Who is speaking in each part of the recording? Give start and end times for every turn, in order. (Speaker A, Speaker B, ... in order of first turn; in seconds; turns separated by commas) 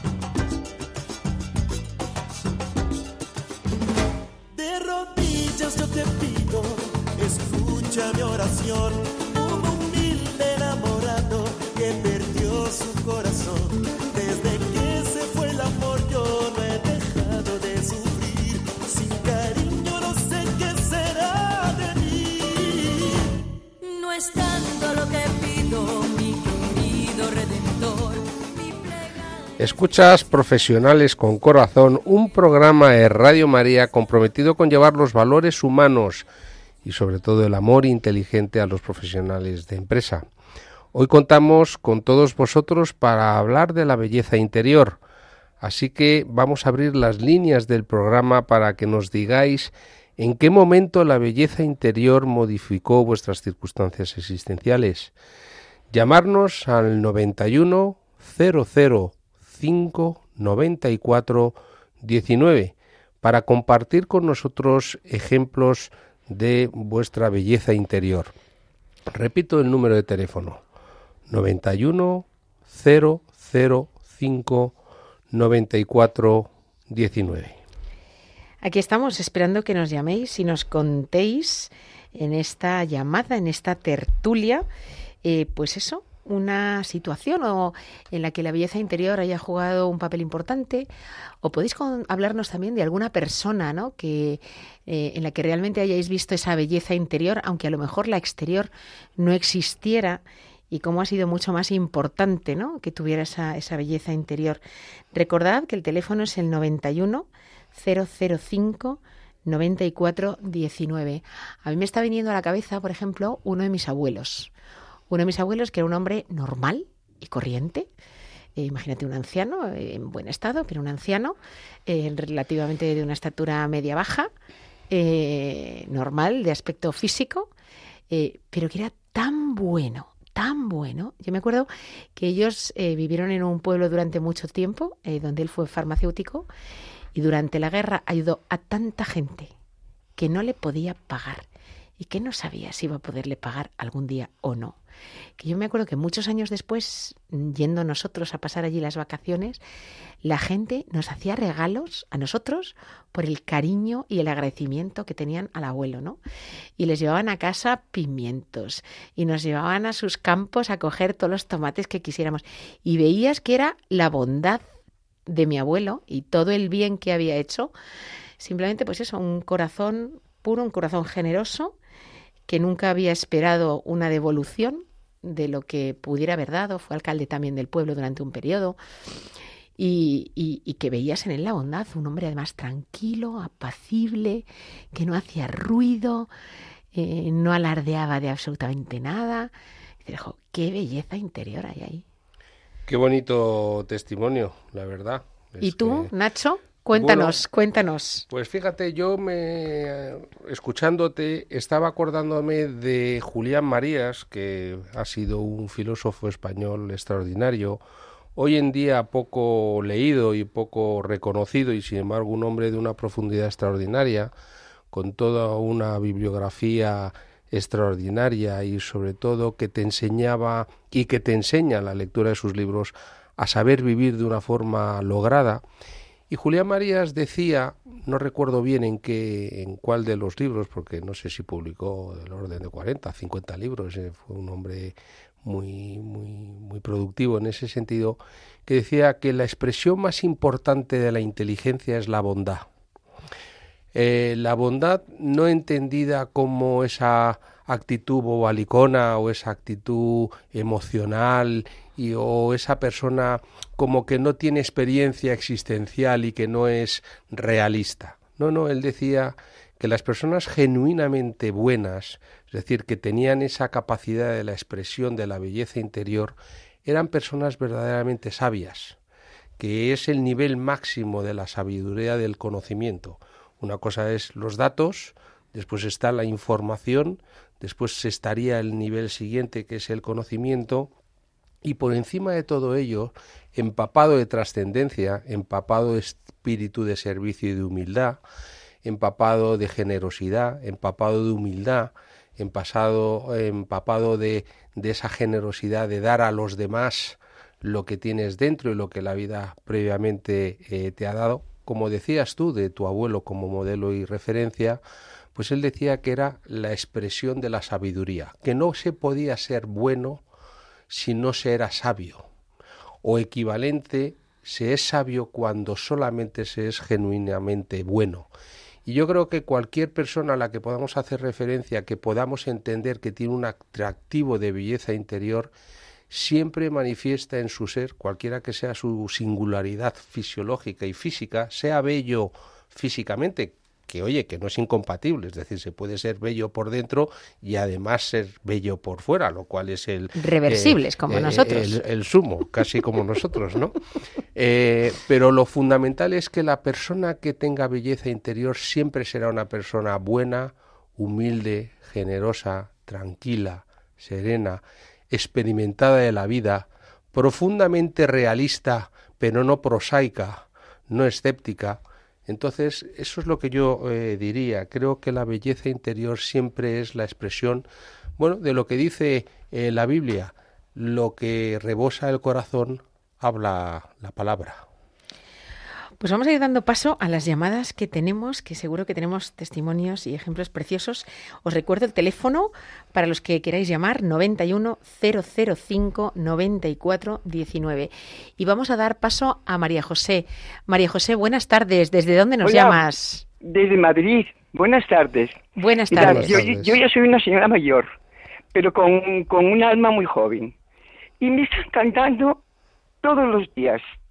Speaker A: 4.5-23.3, Speaker B: 23.9-28.9, Speaker C: 29.6-36.3, Speaker C: 36.8-40.2, Speaker C: 40.9-45.0, Speaker C: 45.6-55.1, Speaker C: 55.9-68.3, Speaker C: 69.1-70.6, Speaker C: 71.3-74.8, Speaker C: 75.3-77.6, Speaker D: 78.6-84.7, Speaker D: 85.2-90.9, Speaker D: 91.4-104.6, Speaker D: 105.1-114.5, Speaker D: 115.1-117.9, Speaker D: 118.5-124.3, Speaker D: 124.9-127.5, Speaker D: 128.1-136.5, Speaker D: 137.1-139.5, Speaker D: 140.2-141.4, Speaker D: 142.0-144.8, Speaker D: 145.4-149.6, Speaker D: 150.2-156.2, Speaker D: 156.8-164.6, Speaker D: 165.2-167.7, Speaker D: 168.4-171.8, Speaker D: 172.5-178.8, Speaker D: 179.8-186.3, Speaker D: 186.9-189.5, Speaker D: 190.0-192.0, Speaker C: 192.9-196.1, Speaker D: 195.6-198.3, Speaker C: 196.9-197.4, Speaker C: 198.3-207.8, Speaker C: 208.4-214.3, Speaker C: 214.9-225.6, Speaker C: 226.3-242.7, Speaker C: 243.9-269.0, Speaker C: 269.6-280.9, Speaker C: 281.6-288.2, Speaker C: 288.8-304.8, Speaker C: 305.3-310.2, Speaker C: 310.9-312.2, Speaker C: 313.0-318.3, Speaker C: 318.9-325.5, Speaker C: 326.1-343.8, Speaker D: 340.1-341.8, Speaker C: 344.4-367.6, Speaker C: 368.2-374.6, Speaker D: 376.0-393.2, Speaker E: 392.4-392.8, Speaker E: 393.4-395.4, Speaker D: 395.6-396.4, Speaker E: 395.9-397.9, Speaker C: 396.0-396.8, Speaker E: 398.5-400.5, Speaker E: 401.2-402.4, Speaker E: 403.0-403.8